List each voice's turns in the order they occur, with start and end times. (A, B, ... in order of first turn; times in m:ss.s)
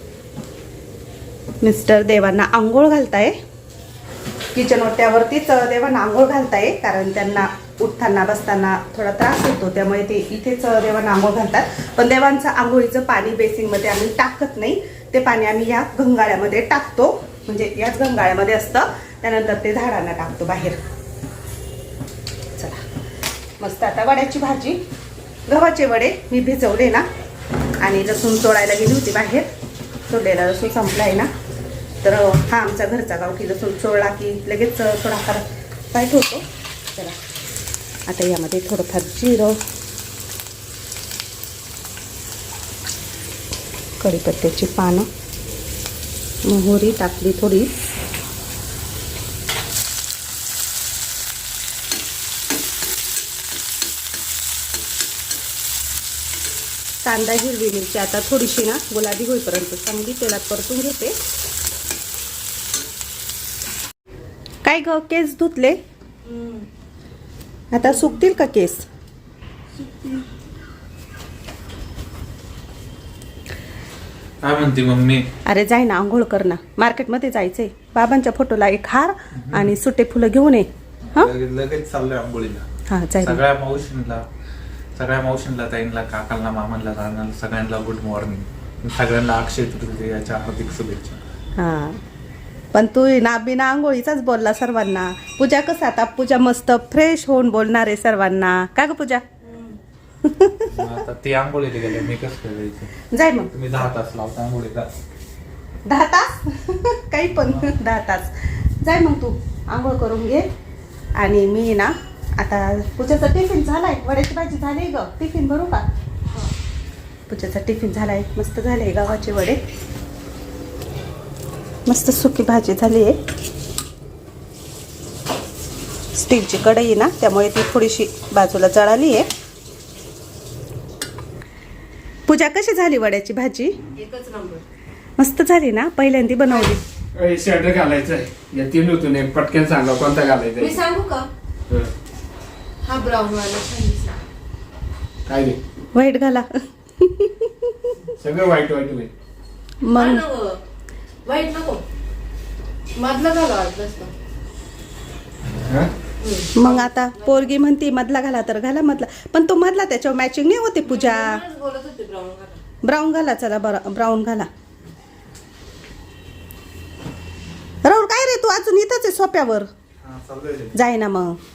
0:01.6-0:03.4 A
0:04.5-0:20.8 A
0:22.6-0:22.8 A
0:23.6-0:24.8 A
0:25.5-0:27.1 A
0:27.8-0:29.5 A
0:30.1-0:31.3 A
0:32.0-0:37.2 A
0:38.1-0:39.6 A
0:44.0-0:45.1 A
0:46.4-0:47.7 A
0:57.0-1:01.2 A
1:04.6-1:05.8 A
1:06.3-1:06.7 B
1:07.7-1:08.8 A
1:14.4-1:15.3 C
1:15.5-1:21.3 A
1:19.4-1:19.7 C
1:21.0-1:22.6 C
1:22.9-1:23.4 A
1:23.2-1:24.2 C
1:25.0-1:31.2 C
1:31.6-1:32.0 A
1:32.7-1:39.3 A
1:40.2-1:40.9 A
1:40.7-1:44.9 C
1:43.1-1:43.5 A
1:45.9-1:50.5 A
1:51.2-1:55.8 A
1:57.3-1:59.6 A
2:01.9-2:03.2 A
2:06.1-2:09.3 A
2:12.3-2:13.8 A
2:14.0-2:14.6 B
2:15.2-2:16.8 A
2:17.2-2:20.8 D
2:20.6-2:21.3 B
2:22.8-2:24.2 B
2:25.3-2:25.6 D
2:25.9-2:28.0 A
2:28.1-2:29.1 D
2:29.8-2:30.2 A
2:29.9-2:30.6 B
2:31.3-2:31.8 B
2:33.0-2:34.1 B
2:35.7-2:35.9 D
2:36.2-2:37.5 B
2:36.6-2:41.4 A
2:40.8-2:42.6 B
2:42.8-2:44.5 A
2:47.8-2:49.7 A
2:50.0-2:50.8 C
2:50.7-2:51.4 A